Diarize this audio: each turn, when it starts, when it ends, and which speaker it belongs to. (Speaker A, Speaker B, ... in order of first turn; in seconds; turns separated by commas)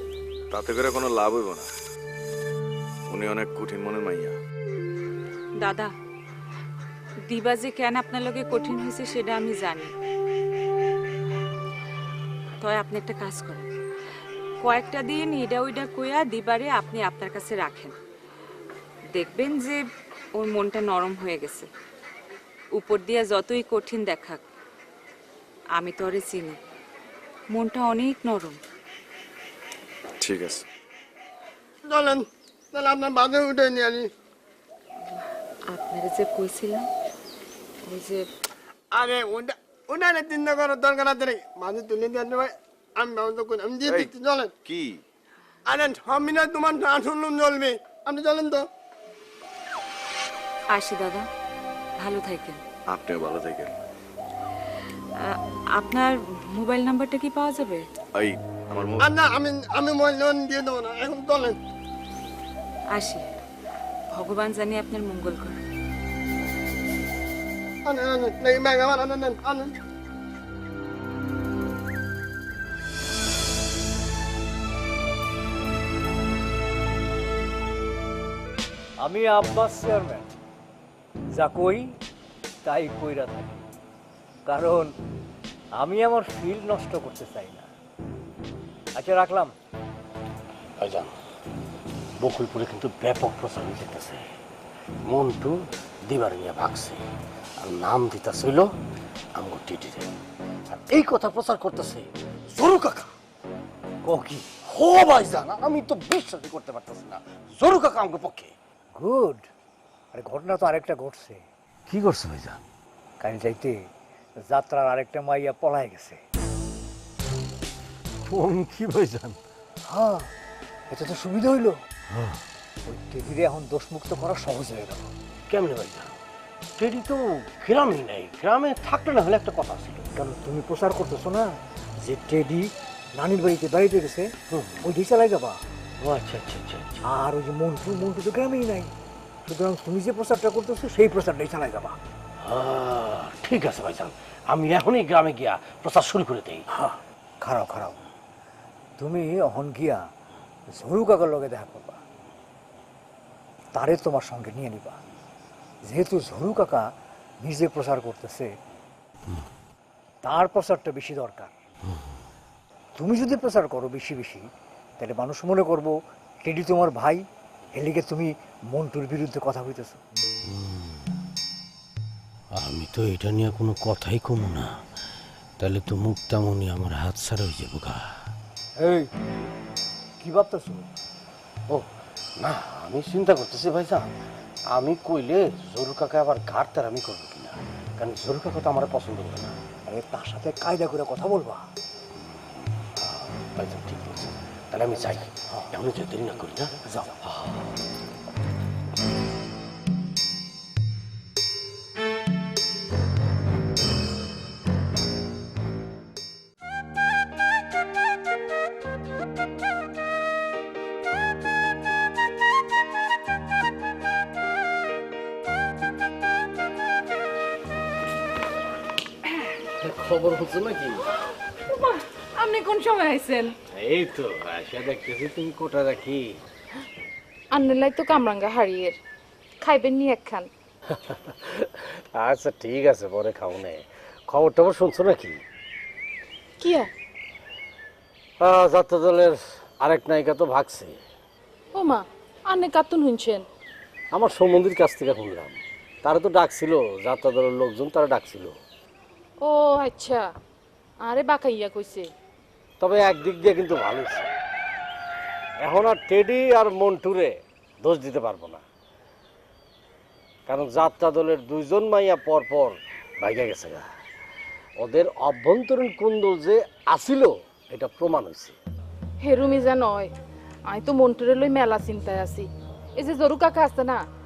Speaker A: 0.5-1.7, Speaker A: 3.1-4.4, Speaker B: 5.6-5.9, Speaker B: 7.3-9.9, Speaker B: 12.6-13.7, Speaker B: 14.6-17.9, Speaker B: 19.1-19.8, Speaker B: 20.4-21.7, Speaker B: 22.7-24.4, Speaker B: 25.8-26.6, Speaker B: 27.5-28.6, Speaker A: 30.2-30.6, Speaker C: 31.9-34.1, Speaker B: 35.1-36.9, Speaker B: 37.9-38.3, Speaker C: 38.9-44.6, Speaker A: 43.9-44.1, Speaker A: 44.6-45.0, Speaker C: 45.7-48.7, Speaker B: 50.7-51.3, Speaker B: 52.0-52.6, Speaker A: 52.9-53.7, Speaker B: 55.2-57.9, Speaker A: 58.1-59.1, Speaker C: 59.0-61.6, Speaker B: 62.9-63.3, Speaker B: 64.1-65.6, Speaker C: 67.8-69.7, Speaker D: 79.0-80.3, Speaker D: 81.3-82.0, Speaker D: 82.6-83.7, Speaker D: 84.5-85.0, Speaker D: 85.8-87.7, Speaker D: 89.0-89.5, Speaker E: 90.8-91.1, Speaker E: 92.2-94.2, Speaker E: 95.0-97.0, Speaker E: 97.6-98.7, Speaker E: 99.4-100.1, Speaker E: 100.7-103.1, Speaker D: 104.0-104.5, Speaker E: 104.6-108.5, Speaker D: 109.0-109.5, Speaker D: 110.1-111.4, Speaker E: 111.9-112.6, Speaker D: 113.2-113.8, Speaker D: 114.5-116.2, Speaker E: 118.3-119.4, Speaker D: 119.9-120.3, Speaker D: 120.9-121.8, Speaker E: 122.1-122.4, Speaker D: 122.9-125.1, Speaker E: 125.5-126.2, Speaker E: 126.8-130.1, Speaker D: 130.2-134.3, Speaker E: 134.5-134.9, Speaker D: 134.8-135.6, Speaker E: 136.0-137.1, Speaker D: 137.0-138.9, Speaker D: 139.5-142.0, Speaker E: 142.4-146.7, Speaker D: 146.7-148.0, Speaker D: 149.0-150.1, Speaker D: 150.7-152.0, Speaker D: 153.8-155.0, Speaker D: 155.9-156.9, Speaker D: 157.4-158.5, Speaker D: 160.2-161.5, Speaker D: 163.0-164.5, Speaker D: 165.0-170.0, Speaker E: 170.5-171.0, Speaker E: 172.6-174.7, Speaker E: 175.6-178.1, Speaker D: 178.8-179.1, Speaker D: 180.2-180.9, Speaker E: 182.4-184.1, Speaker E: 184.7-189.6, Speaker D: 189.9-191.7, Speaker E: 193.0-197.7, Speaker D: 196.9-197.1, Speaker E: 219.8-221.2, Speaker F: 221.7-223.5, Speaker E: 223.7-226.4, Speaker F: 227.5-228.9, Speaker F: 229.6-230.5, Speaker E: 230.9-235.4, Speaker F: 236.6-236.9, Speaker E: 238.4-241.0, Speaker F: 241.8-243.4, Speaker E: 244.1-248.6, Speaker F: 249.4-250.2, Speaker F: 251.0-252.1, Speaker E: 252.8-254.3, Speaker E: 255.6-258.6, Speaker E: 260.5-263.9, Speaker E: 264.8-268.6, Speaker F: 269.2-270.1, Speaker F: 270.7-272.4, Speaker F: 273.0-274.0